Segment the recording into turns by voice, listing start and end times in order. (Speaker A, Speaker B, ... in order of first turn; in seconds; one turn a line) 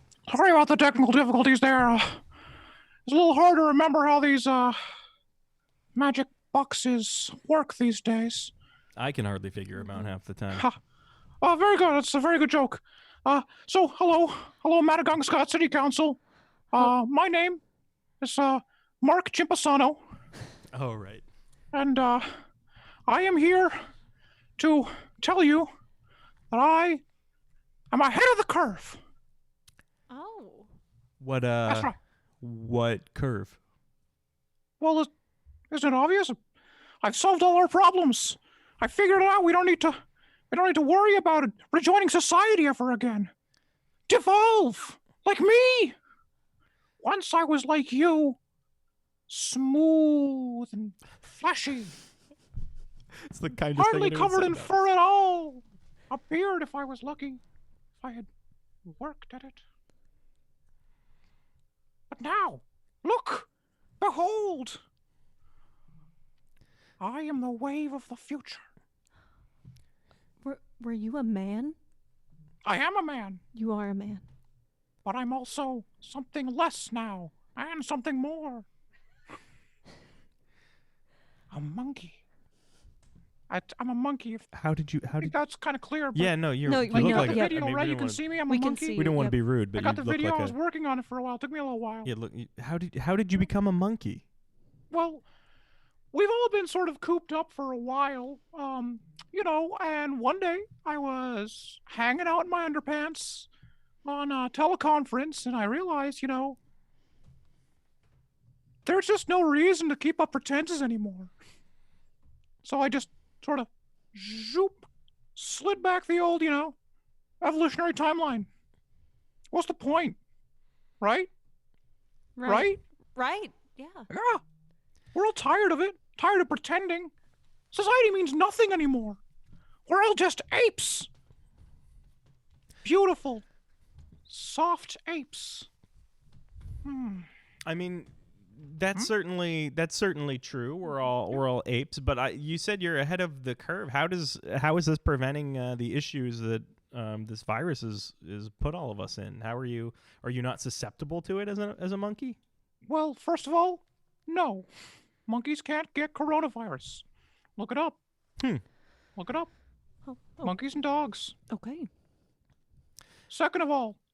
Speaker A: 0.3-2.2
Speaker A: 3.0-4.8
Speaker A: 6.0-8.5
Speaker B: 8.9-10.7
Speaker C: 9.8-10.1
Speaker A: 11.4-16.2
Speaker A: 16.7-17.6
Speaker A: 18.2-20.0
Speaker B: 20.7-21.2
Speaker A: 21.7-22.3
Speaker A: 23.1-23.8
Speaker A: 24.6-25.7
Speaker A: 26.5-27.0
Speaker A: 27.9-29.0
Speaker C: 30.1-30.7
Speaker B: 31.2-33.6
Speaker A: 31.7-31.9
Speaker A: 34.8-35.1
Speaker A: 35.7-36.4
Speaker A: 37.0-40.0
Speaker A: 40.5-43.3
Speaker A: 44.1-45.9
Speaker A: 47.0-48.4
Speaker A: 49.3-52.0
Speaker B: 53.2-54.8
Speaker A: 53.8-57.4
Speaker A: 58.0-58.3
Speaker A: 58.9-59.6
Speaker A: 62.1-63.5
Speaker A: 64.0-64.8
Speaker A: 67.0-68.6
Speaker C: 70.4-71.8
Speaker A: 72.6-73.4
Speaker C: 73.5-74.2
Speaker A: 75.0-78.7
Speaker A: 81.5-82.2
Speaker A: 83.5-84.5
Speaker B: 84.5-85.3
Speaker A: 85.2-89.1
Speaker B: 86.1-88.2
Speaker C: 86.6-87.7
Speaker C: 88.5-89.4
Speaker B: 88.9-90.5
Speaker A: 89.7-92.1
Speaker B: 92.0-94.2
Speaker A: 94.9-95.2
Speaker A: 96.1-103.5
Speaker A: 104.0-106.6
Speaker A: 108.8-111.3
Speaker A: 112.6-114.8
Speaker A: 115.3-116.7
Speaker A: 117.4-118.5
Speaker A: 119.5-120.2
Speaker A: 121.0-121.3
Speaker C: 122.4-124.1
Speaker A: 122.4-122.8
Speaker A: 124.1-124.4
Speaker A: 125.1-127.1
Speaker A: 127.7-129.2
Speaker A: 129.9-131.1
Speaker A: 132.8-133.4
Speaker A: 134.3-135.7
Speaker A: 136.8-137.3
Speaker B: 137.7-152.4
Speaker A: 152.8-154.7
Speaker A: 155.3-157.0
Speaker A: 157.6-158.0
Speaker A: 159.2-159.5
Speaker C: 160.1-160.5
Speaker A: 160.4-161.3
Speaker C: 161.5-161.9
Speaker A: 163.3-164.0